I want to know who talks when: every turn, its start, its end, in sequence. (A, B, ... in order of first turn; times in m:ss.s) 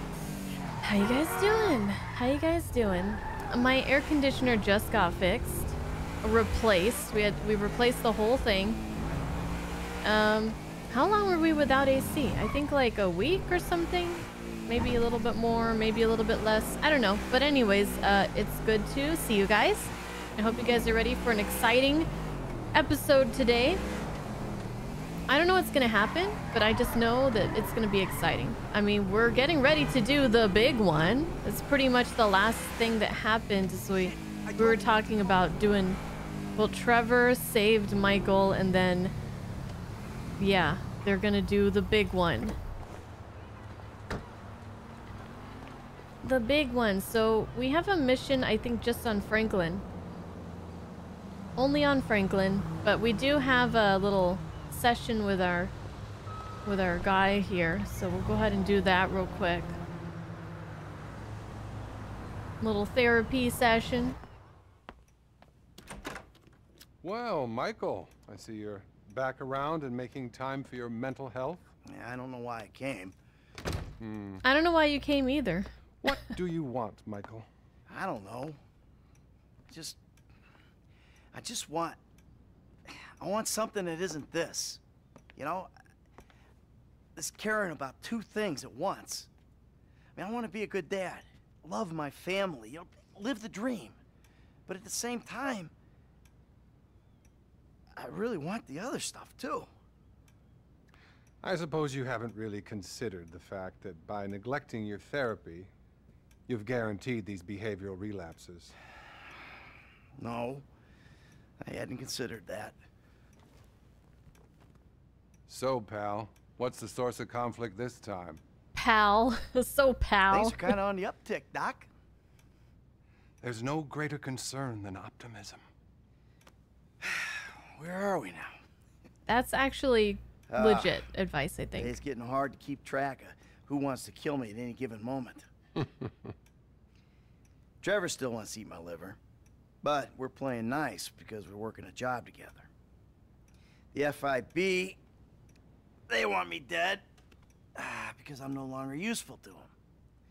0:00.8-0:08.8 A
0:10.0-0:22.1 A
0:22.7-0:23.8 A
0:25.3-0:36.0 A
0:36.6-0:39.1 A
0:40.4-0:42.6 A
0:46.2-0:49.8 A
0:51.6-0:55.7 A
0:56.6-0:59.8 A
1:02.6-1:04.2 A
1:07.0-1:11.7 B
1:11.8-1:13.2 C
1:14.0-1:14.4 B
1:14.4-1:16.1 A
1:16.0-1:17.5 B
1:17.9-1:18.6 C
1:19.7-1:20.0 C
1:21.3-1:22.0 C
1:22.9-1:24.8 C
1:25.4-1:25.7 C
1:27.2-1:29.3 C
1:30.2-1:34.0 C
1:34.7-1:35.7 C
1:37.9-1:39.7 C
1:41.4-1:45.7 B
1:46.5-1:48.7 B
1:50.2-1:50.6 C
1:51.6-1:52.8 C
1:55.5-1:58.4 B
1:58.7-2:00.8 A
2:00.3-2:01.9 C
2:03.4-2:05.6 B
2:07.0-2:08.6 C
2:09.3-2:12.0 A
2:10.5-2:11.0 C
2:11.8-2:15.5 C
2:15.8-2:16.2 B
2:17.8-2:19.2 C
2:19.8-2:22.7 C
2:23.9-2:25.0 C
2:26.1-2:27.0 C
2:27.8-2:29.7 C